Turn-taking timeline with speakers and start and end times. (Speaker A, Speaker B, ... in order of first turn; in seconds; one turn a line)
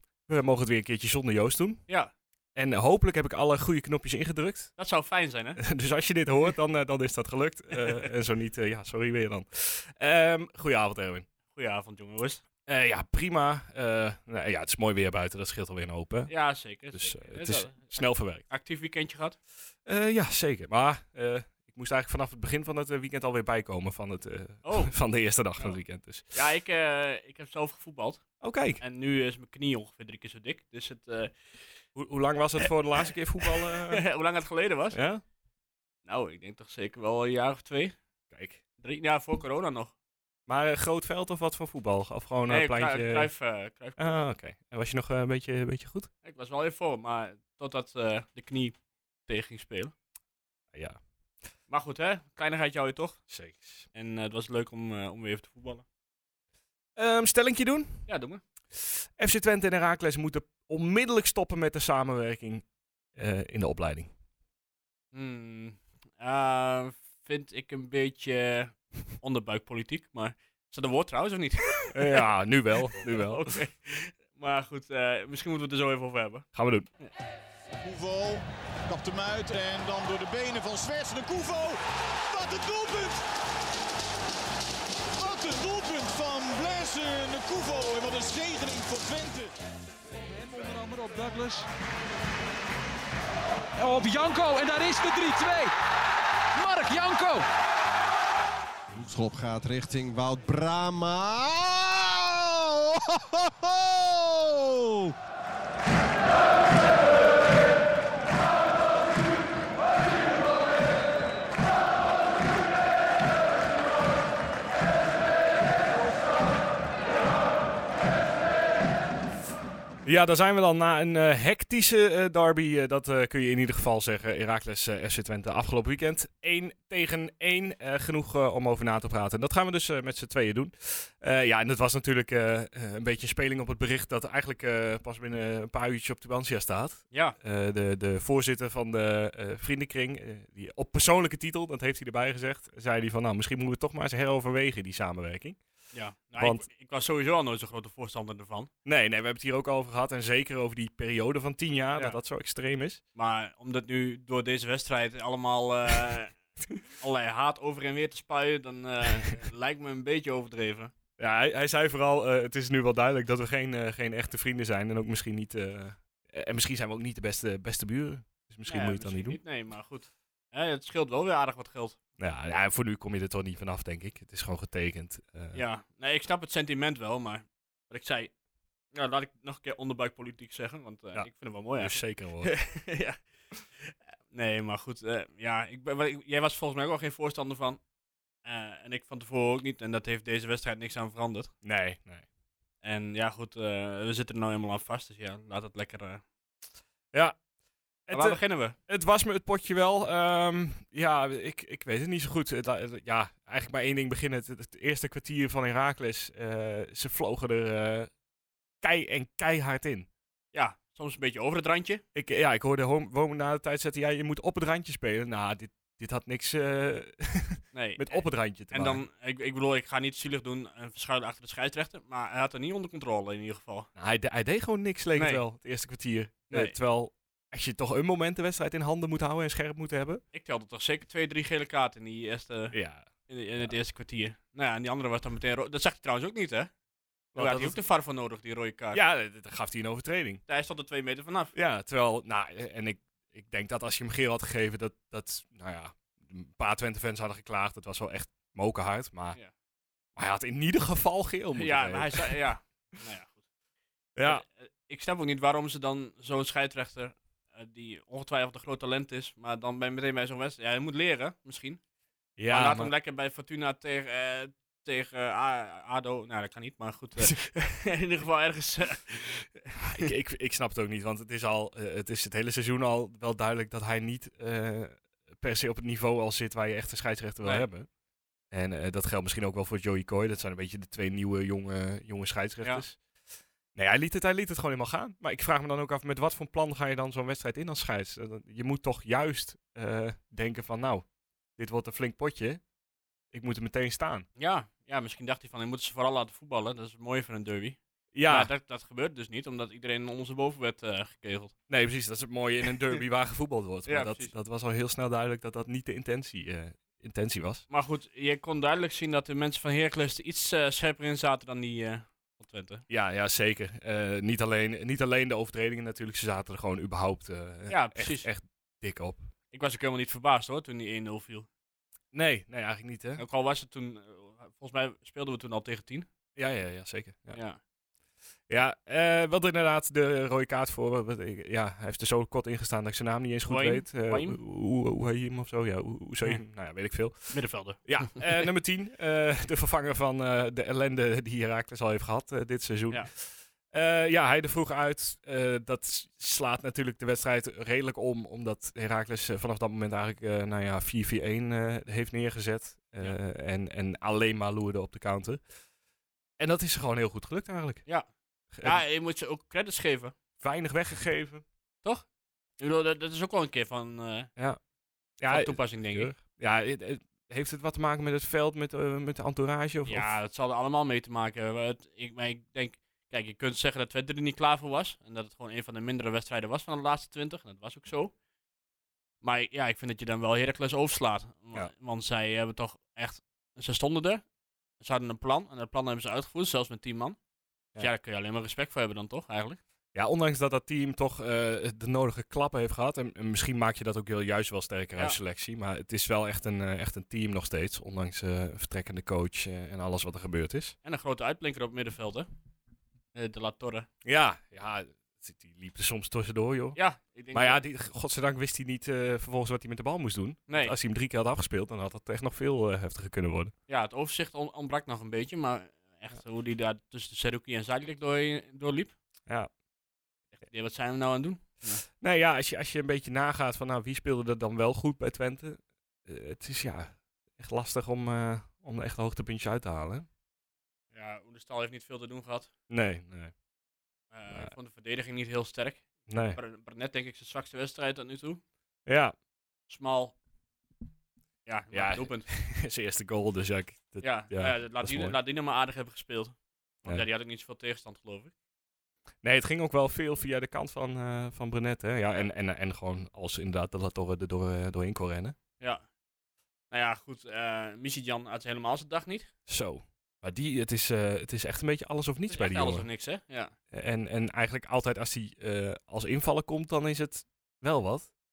Speaker A: 0.3-1.8
Speaker A: 2.5-4.7
Speaker B: 4.8-5.6
Speaker A: 5.6-11.3
Speaker B: 7.8-8.1
Speaker B: 11.5-12.4
Speaker A: 12.7-16.3
Speaker B: 16.3-19.4
Speaker A: 16.9-18.4
Speaker A: 19.8-26.3
Speaker B: 24.6-24.9
Speaker B: 26.3-28.2
Speaker A: 28.4-28.8
Speaker B: 28.8-31.6
Speaker A: 31.9-34.0
Speaker B: 33.4-35.0
Speaker A: 34.9-35.2
Speaker B: 36.0-38.0
Speaker A: 38.3-38.6
Speaker B: 38.8-39.9
Speaker A: 40.5-43.3
Speaker B: 42.5-44.2
Speaker A: 44.0-46.1
Speaker B: 46.2-49.9
Speaker A: 50.7-51.0
Speaker B: 51.7-53.2
Speaker A: 53.3-53.9
Speaker B: 53.9-55.8
Speaker A: 57.0-58.1
Speaker B: 58.1-58.4
Speaker A: 58.7-64.1
Speaker B: 65.1-72.2
Speaker A: 71.9-73.5
Speaker B: 72.9-76.5
Speaker A: 76.5-76.9
Speaker C: 77.8-83.2
Speaker C: 85.2-89.5
Speaker D: 90.2-91.7
Speaker D: 93.8-95.7
Speaker D: 96.5-97.5
Speaker E: 98.9-105.1
Speaker A: 120.0-145.6
Speaker B: 137.1-137.3
Speaker B: 145.9-148.7
Speaker A: 146.4-146.6
Speaker A: 148.8-153.0
Speaker B: 153.1-156.3
Speaker B: 157.0-160.9
Speaker A: 161.2-169.4
Speaker B: 168.7-172.0
Speaker A: 172.2-175.6
Speaker B: 175.5-178.3
Speaker B: 178.9-183.2
Speaker A: 181.1-182.5
Speaker B: 183.8-187.8
Speaker B: 188.4-191.5
Speaker A: 191.6-192.2
Speaker B: 192.8-196.2
Speaker A: 197.1-197.4
Speaker A: 198.1-208.1
Speaker B: 198.1-198.7
Speaker A: 208.8-210.1
Speaker B: 210.5-212.0
Speaker A: 212.1-219.0
Speaker B: 217.7-223.9
Speaker A: 223.9-230.2
Speaker B: 225.2-225.4
Speaker B: 226.5-226.8
Speaker B: 230.3-232.7
Speaker A: 232.7-233.1
Speaker B: 233.3-236.7
Speaker A: 237.3-237.8
Speaker B: 237.3-239.0
Speaker A: 238.9-240.4
Speaker B: 240.5-241.5
Speaker A: 241.5-249.4
Speaker A: 250.2-252.4
Speaker B: 251.6-253.4
Speaker A: 254.2-254.4
Speaker B: 254.2-261.8
Speaker A: 262.4-262.9
Speaker B: 262.5-270.1
Speaker A: 269.8-277.9
Speaker A: 278.5-283.0
Speaker A: 283.7-291.1
Speaker A: 291.6-292.6
Speaker A: 293.3-294.2
Speaker B: 294.4-301.5
Speaker A: 298.1-298.5
Speaker A: 301.7-307.6
Speaker B: 303.9-304.3
Speaker B: 307.7-312.8
Speaker A: 312.9-319.3
Speaker B: 317.7-318.3
Speaker B: 319.5-321.5
Speaker A: 322.1-323.2
Speaker B: 323.2-326.1
Speaker A: 326.4-327.4
Speaker B: 327.3-327.6
Speaker A: 328.5-355.4
Speaker B: 333.5-334.4
Speaker B: 337.3-338.4
Speaker A: 356.4-357.8
Speaker A: 358.5-358.8
Speaker B: 358.6-360.1
Speaker A: 360.4-361.4
Speaker B: 362.6-364.3
Speaker A: 365.2-370.1
Speaker B: 365.3-366.1
Speaker B: 369.9-378.1
Speaker B: 379.2-384.2
Speaker B: 384.8-387.2
Speaker B: 387.8-389.6
Speaker A: 389.9-400.7
Speaker B: 400.8-402.3
Speaker B: 403.1-403.9
Speaker A: 404.0-406.8
Speaker B: 406.8-407.6
Speaker A: 407.3-413.5
Speaker B: 410.5-410.7
Speaker B: 413.7-418.9
Speaker B: 420.4-421.8
Speaker A: 422.0-430.1
Speaker B: 430.9-432.5
Speaker A: 432.7-433.3
Speaker B: 434.1-438.4
Speaker A: 436.1-436.4
Speaker A: 438.9-439.1
Speaker B: 439.7-440.1
Speaker B: 441.4-442.2
Speaker A: 441.7-445.1
Speaker B: 444.0-448.3
Speaker A: 449.2-455.4
Speaker B: 456.7-459.3
Speaker A: 459.5-462.9
Speaker B: 462.3-463.5
Speaker A: 463.7-468.1